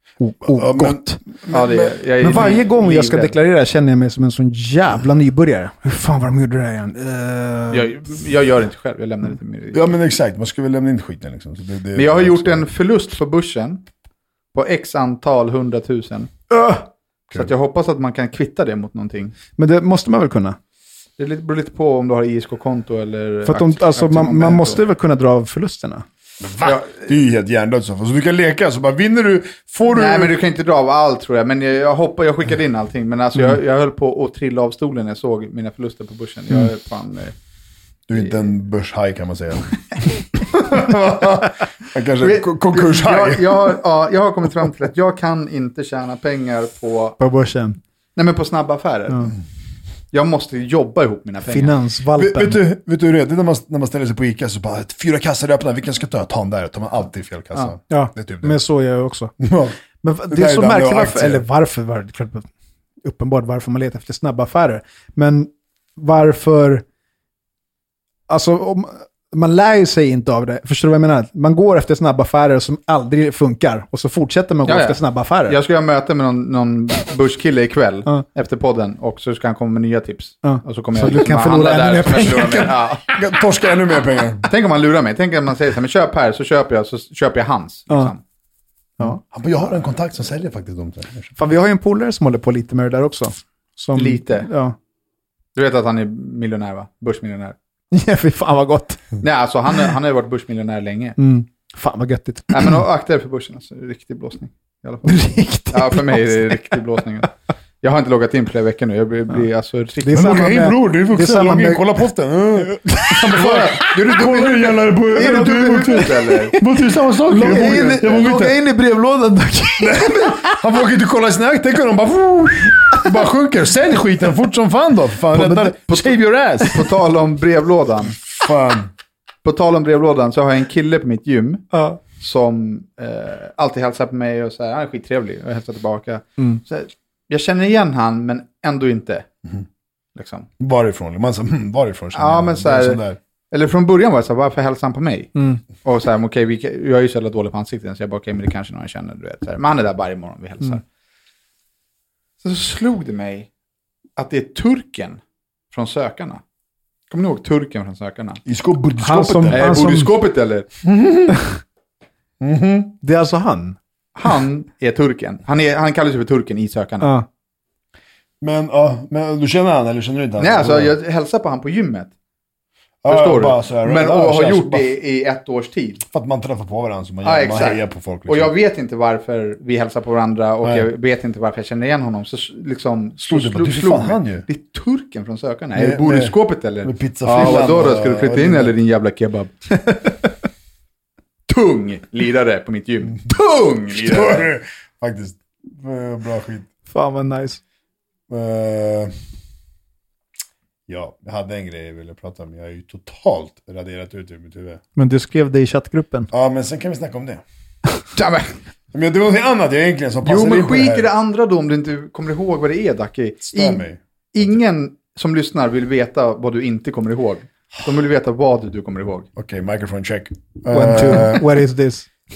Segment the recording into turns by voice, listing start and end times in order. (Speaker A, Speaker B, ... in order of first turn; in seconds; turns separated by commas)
Speaker A: 0.2-1.2, Speaker B: 0.5-2.6, Speaker C: 1.5-3.3, Speaker A: 2.2-7.9, Speaker C: 7.7-9.9, Speaker B: 9.7-12.7, Speaker C: 11.9-13.8, Speaker C: 14.5-16.3, Speaker A: 16.5-16.9, Speaker C: 17.3-19.3, Speaker A: 19.6-20.6, Speaker C: 21.2-24.8, Speaker A: 23.4-26.0, Speaker B: 26.4-30.4, Speaker C: 26.6-27.0, Speaker C: 29.9-37.3, Speaker B: 38.1-43.8, Speaker C: 42.2-47.2, Speaker A: 47.2-47.8, Speaker C: 48.1-49.4, Speaker C: 50.1-51.7, Speaker A: 51.5-52.6, Speaker B: 52.1-58.6, Speaker A: 57.9-59.3, Speaker B: 59.4-59.8, Speaker A: 60.0-62.5, Speaker B: 60.3-61.5, Speaker A: 63.0-66.8, Speaker A: 68.3-75.6, Speaker C: 74.6-83.2, Speaker A: 80.4-82.8, Speaker B: 82.4-84.5, Speaker C: 84.4-88.2, Speaker B: 89.1-91.3, Speaker A: 91.3-94.8, Speaker C: 93.9-94.5, Speaker C: 95.5-97.5, Speaker A: 97.9-99.1, Speaker C: 99.2-101.2, Speaker A: 101.2-102.7, Speaker C: 102.5-107.3, Speaker A: 105.0-106.7, Speaker C: 107.8-110.6, Speaker A: 110.0-112.0, Speaker B: 110.1-118.6, Speaker A: 112.6-113.4, Speaker C: 113.3-116.5, Speaker A: 117.2-120.6, Speaker C: 117.8-118.2, Speaker B: 119.8-126.9, Speaker C: 125.4-128.2, Speaker B: 128.3-128.9, Speaker C: 129.4-139.3, Speaker A: 131.7-132.0, Speaker C: 140.1-140.5, Speaker B: 140.6-143.2, Speaker C: 142.1-150.8, Speaker A: 145.3-145.6, Speaker C: 152.4-153.5, Speaker C: 154.2-156.4, Speaker C: 157.1-158.4, Speaker B: 158.4-159.9, Speaker A: 159.0-160.1, Speaker C: 159.5-160.7, Speaker B: 160.8-161.4, Speaker B: 162.4-163.0, Speaker A: 163.0-163.8, Speaker C: 164.2-167.1, Speaker A: 167.0-167.2, Speaker B: 168.4-170.9, Speaker C: 170.4-172.1, Speaker B: 173.0-174.9, Speaker C: 173.1-176.0, Speaker B: 176.0-178.5, Speaker C: 177.2-189.8, Speaker B: 180.6-180.9, Speaker B: 183.2-184.4, Speaker B: 185.7-188.7, Speaker C: 191.5-194.5, Speaker B: 193.9-196.7, Speaker A: 196.9-197.6, Speaker B: 198.3-199.1, Speaker B: 200.9-204.8, Speaker A: 204.9-206.3, Speaker B: 206.3-207.4, Speaker C: 208.2-208.5, Speaker B: 208.9-211.1, Speaker C: 210.2-213.8, Speaker B: 213.5-214.5, Speaker C: 214.3-219.3, Speaker B: 219.3-221.6, Speaker A: 220.7-222.1